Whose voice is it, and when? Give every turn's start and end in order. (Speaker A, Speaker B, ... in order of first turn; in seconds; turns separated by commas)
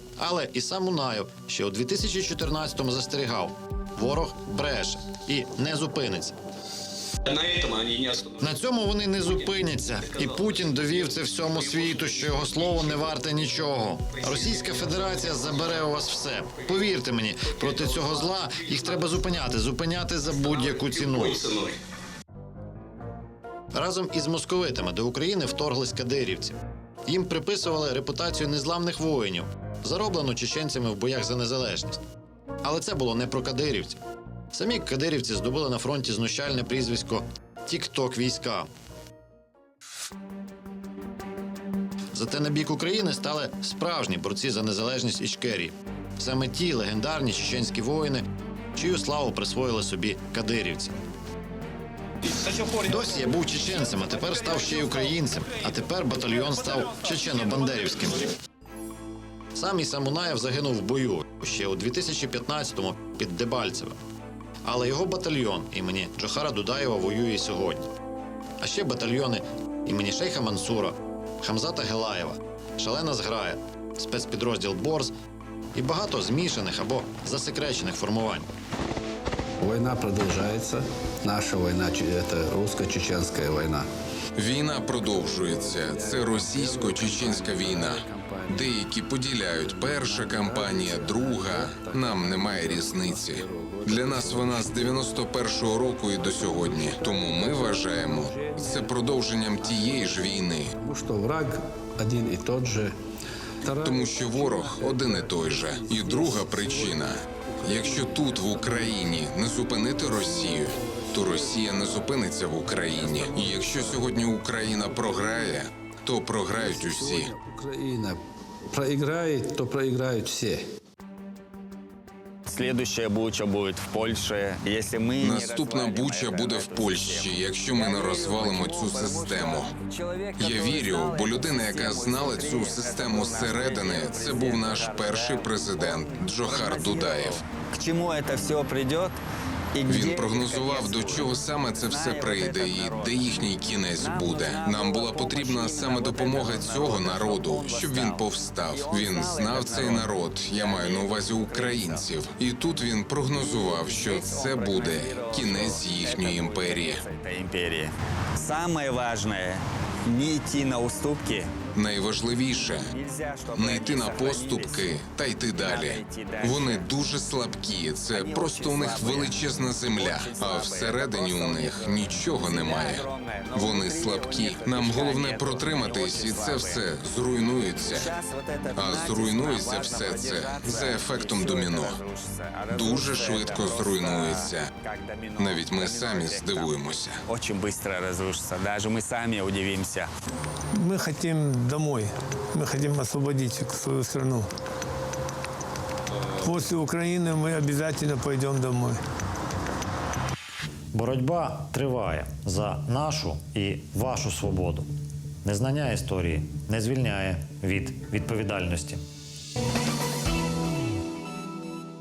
Speaker A: 0.2-6.3, Speaker B: 7.3-8.2, Speaker A: 8.4-21.4, Speaker B: 10.2-10.4, Speaker B: 14.3-15.4, Speaker B: 17.6-19.1, Speaker B: 20.8-21.7, Speaker A: 23.7-32.0, Speaker A: 32.6-34.0, Speaker A: 34.5-38.7, Speaker A: 42.1-48.2, Speaker A: 48.8-50.9, Speaker A: 52.7-58.3, Speaker A: 59.5-64.0, Speaker A: 64.6-67.9, Speaker A: 68.6-75.1, Speaker A: 75.7-78.5, Speaker C: 79.6-83.9, Speaker D: 84.3-100.7, Speaker C: 85.0-88.7, Speaker C: 89.6-95.1, Speaker C: 96.2-102.9, Speaker C: 103.6-115.6, Speaker D: 103.8-117.3, Speaker C: 116.5-120.6, Speaker E: 122.5-139.2, Speaker D: 125.2-129.7, Speaker D: 130.4-137.4, Speaker E: 139.7-143.4, Speaker D: 139.9-157.0, Speaker E: 144.0-152.1, Speaker E: 153.3-161.5, Speaker D: 161.7-162.9, Speaker E: 162.9-164.9, Speaker D: 163.5-178.1, Speaker E: 165.5-167.0, Speaker E: 168.1-176.8, Speaker E: 177.8-190.1, Speaker D: 178.7-182.0, Speaker D: 182.7-184.7, Speaker D: 185.4-187.2, Speaker F: 190.8-194.5, Speaker F: 196.4-199.0, Speaker G: 200.9-204.9, Speaker G: 205.4-209.0